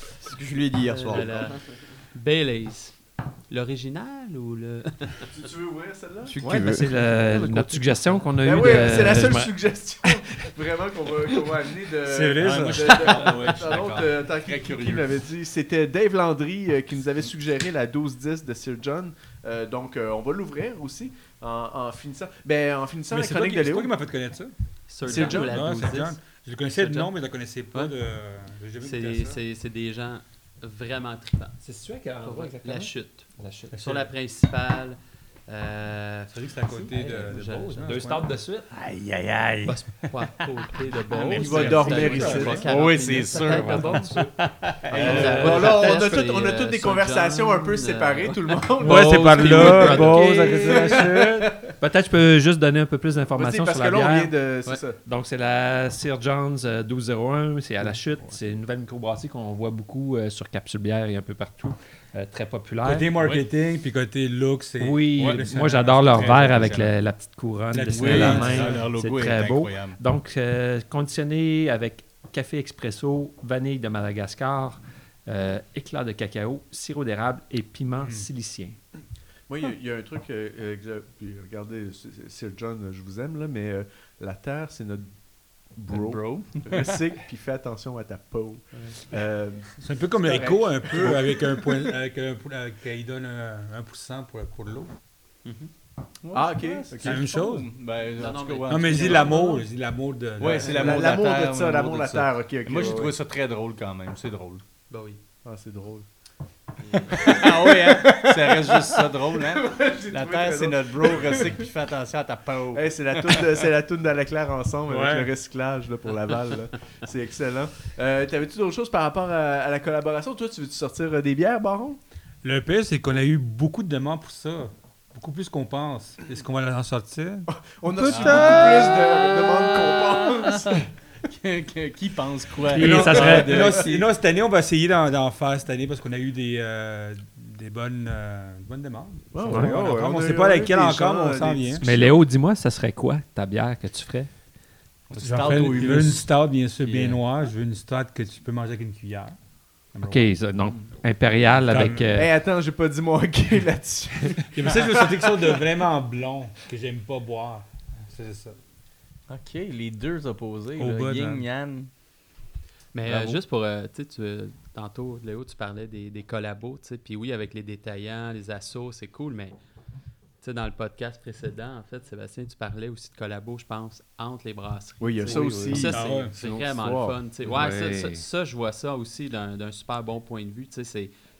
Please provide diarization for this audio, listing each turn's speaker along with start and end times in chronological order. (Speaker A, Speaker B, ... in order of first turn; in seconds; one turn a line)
Speaker A: 0.2-1.6
Speaker B: 0.9-5.2
Speaker C: 5.2-6.4
Speaker A: 6.3-7.5
Speaker D: 6.4-9.5
Speaker B: 7.2-8.9
Speaker C: 8.4-23.9
Speaker E: 12.1-13.1
Speaker F: 12.4-15.1
Speaker E: 23.1-29.4
Speaker B: 24.9-27.1
Speaker C: 25.0-25.6
Speaker B: 28.8-31.6
Speaker D: 31.6-33.8
Speaker B: 32.2-37.9
Speaker E: 33.7-34.1
Speaker E: 36.3-38.3
Speaker D: 36.7-38.7
Speaker F: 38.7-40.4
Speaker B: 39.6-44.3
Speaker C: 41.2-42.6
Speaker E: 41.2-42.7
Speaker D: 41.3-42.6
Speaker F: 41.4-41.8
Speaker F: 42.6-45.8
Speaker D: 43.3-44.3
Speaker C: 44.9-51.5
Speaker B: 44.9-50.3
Speaker E: 45.0-45.6
Speaker E: 48.8-51.5
Speaker D: 49.8-51.1
Speaker D: 51.8-54.4
Speaker C: 53.3-55.0
Speaker D: 55.0-63.1
Speaker E: 62.8-66.8
Speaker F: 63.1-63.5
Speaker D: 64.8-78.8
Speaker F: 65.2-67.0
Speaker E: 67.7-68.9
Speaker F: 67.9-70.0
Speaker E: 78.0-78.3
Speaker C: 79.5-91.7
Speaker F: 85.9-86.8
Speaker E: 89.8-94.9
Speaker B: 95.4-95.7
Speaker F: 96.2-99.6
Speaker C: 96.3-97.2
Speaker E: 97.0-97.7
Speaker B: 98.2-99.3
Speaker E: 98.7-101.1
Speaker F: 100.4-104.6
Speaker C: 100.5-103.1
Speaker B: 104.9-105.2
Speaker C: 105.4-106.0
Speaker B: 106.8-107.3
Speaker C: 106.9-111.7
Speaker F: 107.1-113.5
Speaker C: 112.7-122.0
Speaker E: 114.9-115.3
Speaker E: 122.4-129.0
Speaker C: 127.5-130.9
Speaker F: 128.1-134.1
Speaker D: 132.7-133.7
Speaker E: 132.8-141.8
Speaker C: 139.3-142.2
Speaker D: 139.5-139.7
Speaker D: 141.8-144.3
Speaker F: 145.1-147.2
Speaker E: 145.2-150.3
Speaker D: 150.1-152.3
Speaker E: 151.6-152.1
Speaker C: 152.0-155.2
Speaker E: 154.5-158.6
Speaker F: 159.3-161.9
Speaker E: 160.8-161.4
Speaker B: 162.9-169.5
Speaker E: 163.1-163.4
Speaker B: 170.4-181.1
Speaker C: 175.0-177.2
Speaker D: 175.2-176.0
Speaker E: 175.8-176.3
Speaker D: 177.4-178.2